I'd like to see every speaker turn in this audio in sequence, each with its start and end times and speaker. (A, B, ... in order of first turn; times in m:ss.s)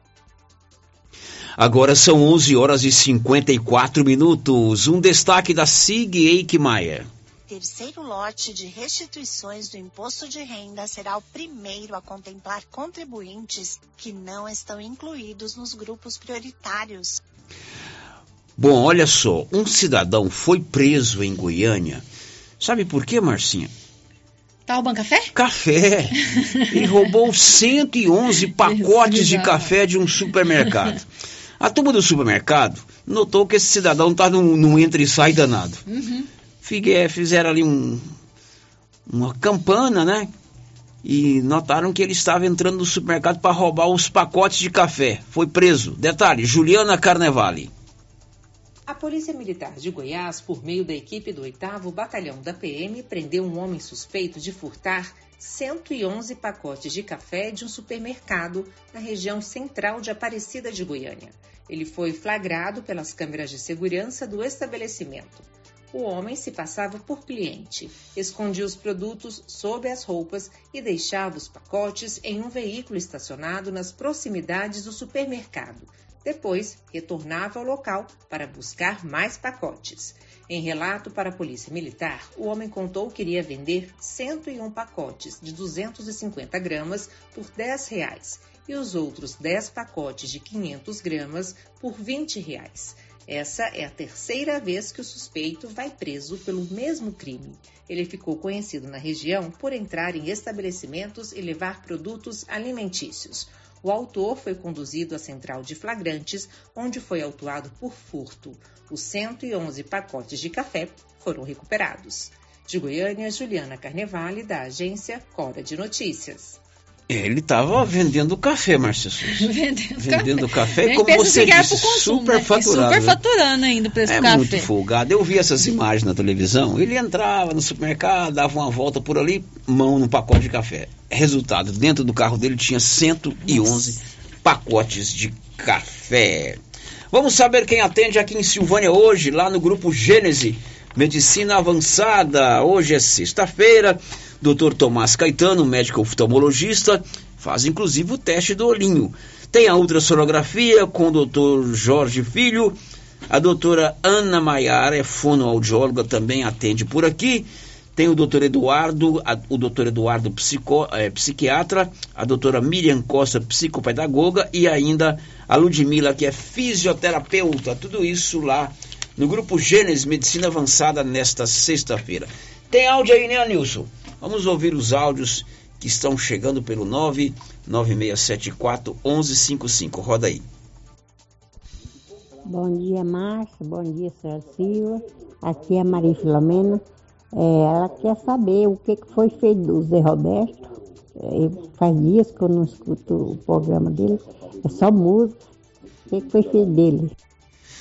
0:01.6-0:07.1 A
0:07.5-0:17.2 B
0:18.6-0:22.0 A
0:22.6-0:23.7 A
0:24.7-0:25.3 C
0:25.3-0:31.0 A
0:28.6-0:29.7 C
0:31.6-0:35.8 A
0:35.9-0:36.3 C
0:36.6-0:38.1 A
0:39.1-0:40.3 A
0:41.0-0:47.7 A
0:48.9-1:56.6 D
1:57.1-2:03.2 A
1:59.3-2:04.7 C
2:04.1-2:16.6 A
2:13.5-2:13.9 C
2:17.1-2:32.8 A
2:33.3-3:00.4 A
3:02.4-3:06.8 E
3:07.4-3:10.6 E
3:11.2-3:15.4 E
3:16.1-3:17.1 E